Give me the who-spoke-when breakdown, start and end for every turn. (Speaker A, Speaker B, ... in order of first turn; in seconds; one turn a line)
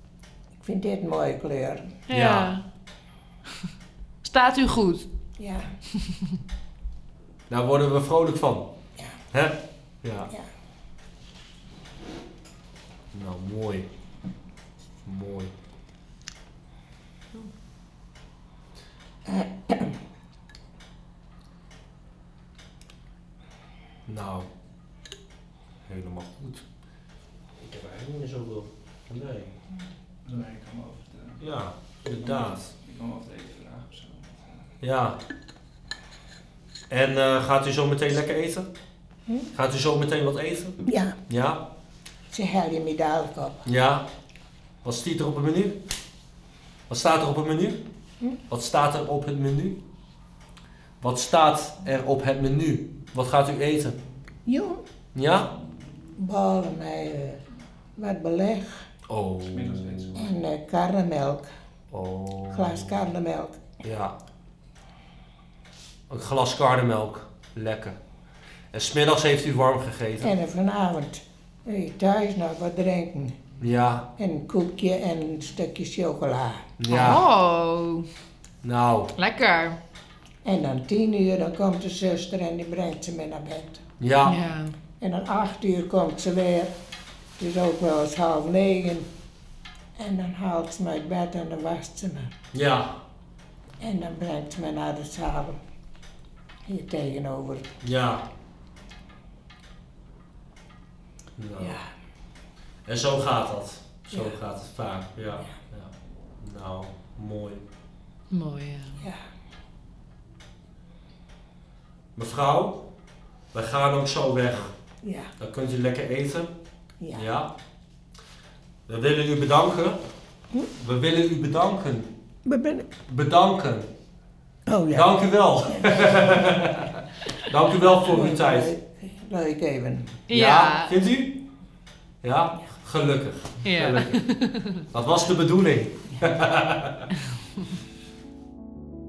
Speaker A: 0.6-1.9
Speaker B: 2.1-2.6
Speaker C: 2.1-2.6
Speaker B: 4.2-5.1
Speaker A: 5.4-5.7
Speaker C: 7.5-8.7
Speaker C: 9.3-10.3
Speaker C: 13.1-13.9
Speaker C: 15.0-15.5
Speaker A: 19.2-19.9
Speaker C: 24.1-24.5
Speaker C: 25.9-26.6
Speaker C: 27.6-29.5
Speaker D: 30.2-31.4
Speaker C: 31.4-32.7
Speaker D: 32.1-34.6
Speaker C: 34.8-35.2
Speaker C: 36.9-38.7
Speaker C: 39.5-41.6
Speaker A: 40.8-41.2
Speaker A: 42.3-43.6
Speaker C: 43.6-44.0
Speaker C: 44.8-45.8
Speaker C: 46.9-47.8
Speaker C: 48.5-49.8
Speaker C: 51.0-54.0
Speaker A: 54.4-54.8
Speaker C: 55.1-55.5
Speaker A: 56.1-57.4
Speaker A: 58.0-58.9
Speaker C: 59.1-60.2
Speaker D: 59.5-60.3
Speaker A: 60.1-61.5
Speaker C: 61.9-62.9
Speaker A: 62.5-63.6
Speaker C: 63.8-64.2
Speaker C: 66.1-68.0
Speaker C: 68.7-70.3
Speaker A: 70.2-73.4
Speaker C: 73.6-74.1
Speaker A: 74.2-76.7
Speaker C: 76.8-77.2
Speaker B: 76.9-78.1
Speaker C: 78.6-79.1
Speaker B: 79.2-79.8
Speaker A: 80.4-83.8
Speaker C: 84.0-84.5
Speaker B: 84.2-84.7
Speaker A: 85.0-86.7
Speaker A: 87.4-89.1
Speaker A: 90.0-92.3
Speaker C: 92.5-93.0
Speaker A: 93.8-95.6
Speaker A: 96.7-97.7
Speaker C: 97.8-98.2
Speaker C: 101.3-101.8
Speaker A: 101.6-101.8
Speaker C: 102.8-107.6
Speaker B: 108.3-109.0
Speaker C: 112.2-112.8
Speaker C: 113.5-114.7
Speaker A: 115.0-115.3
Speaker C: 115.4-116.5
Speaker A: 117.0-117.3
Speaker C: 117.1-117.5
Speaker C: 118.9-120.0
Speaker C: 120.7-122.1
Speaker A: 122.4-122.9
Speaker C: 123.1-123.9
Speaker A: 124.7-125.1
Speaker C: 124.9-128.7
Speaker A: 125.7-126.4
Speaker A: 128.0-130.2
Speaker B: 130.3-130.9
Speaker C: 130.3-131.4
Speaker C: 132.2-134.2
Speaker B: 133.6-134.8
Speaker C: 134.8-137.1